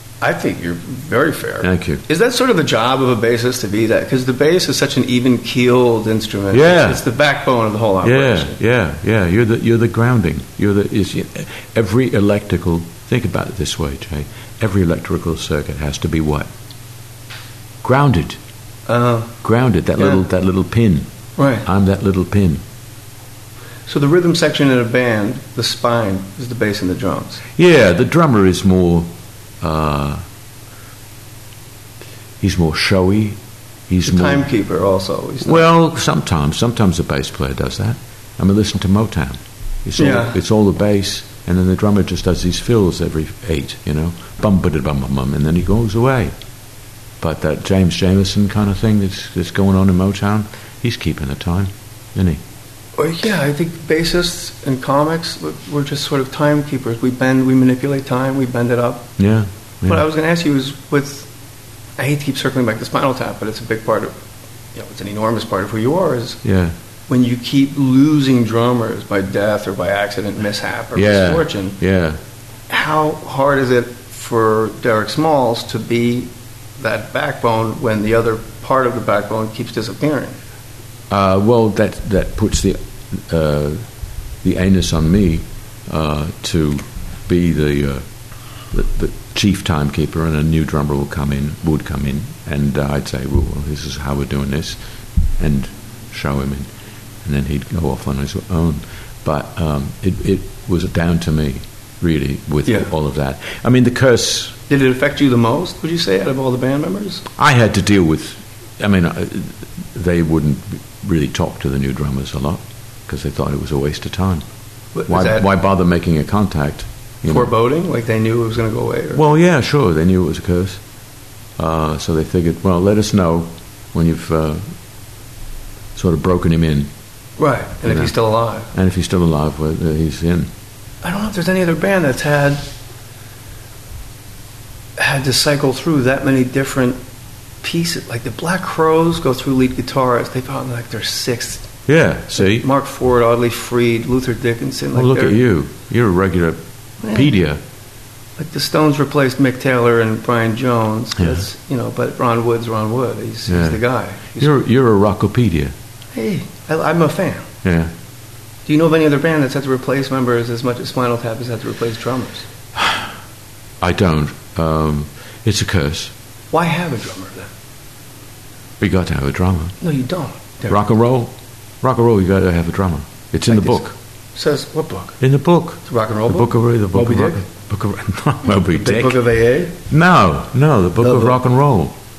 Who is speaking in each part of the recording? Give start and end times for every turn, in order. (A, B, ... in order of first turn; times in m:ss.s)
0:00.2-0:08.6 A
0:01.6-0:02.0 B
0:06.5-0:07.0 B
0:08.0-0:16.5 B
0:17.8-0:18.4 B
0:18.9-0:19.4 A
0:19.4-0:21.1 B
0:21.4-0:21.6 A
0:21.6-0:22.6 B
0:23.9-0:27.4 A
0:27.6-0:30.2 B
0:32.4-0:34.5 B
0:34.0-0:35.6 A
0:35.4-0:46.3 B
0:40.0-0:40.4 A
0:47.2-0:52.4 B
0:53.0-0:59.1 A
0:59.2-1:00.0 B
0:59.9-1:01.3 A
1:02.0-1:04.1 A
1:04.8-1:06.4 A
1:06.4-1:06.8 B
1:07.1-1:11.8 A
1:10.9-1:12.2 B
1:12.7-1:20.4 A
1:21.1-1:23.8 B
1:24.4-1:28.0 B
1:28.7-1:34.8 B
1:35.4-1:36.7 B
1:37.2-1:44.6 B
1:44.7-1:47.2 A
1:47.4-1:54.4 B
1:54.9-1:55.5 A
1:55.1-1:57.5 B
1:57.2-1:59.2 A
1:59.1-2:00.8 B
2:01.6-2:04.8 B
2:05.9-2:06.9 B
2:07.4-2:08.7 A
2:07.8-2:08.1 B
2:08.7-2:10.5 B
2:11.0-2:12.6 A
2:15.0-2:17.0 A
2:17.6-2:21.7 A
2:21.9-2:22.7 B
2:22.4-2:25.4 A
2:24.9-2:27.6 B
2:27.0-2:27.3 A
2:28.4-2:34.5 A
2:31.2-2:31.4 B
2:33.5-2:33.8 B
2:34.4-2:35.8 B
2:36.1-2:37.5 A
2:37.6-2:37.9 B
2:38.6-2:42.5 A
2:42.8-2:43.1 B
2:43.8-2:46.1 B
2:46.5-2:47.5 A
2:48.8-2:49.8 B
2:49.8-2:50.8 A
2:50.7-2:53.9 B
2:53.5-2:53.8 A
2:54.4-2:55.2 A
2:55.2-2:59.2 B
2:55.8-2:57.4 A
2:58.7-2:59.8 A
2:59.9-3:01.9 B
3:01.0-3:01.4 A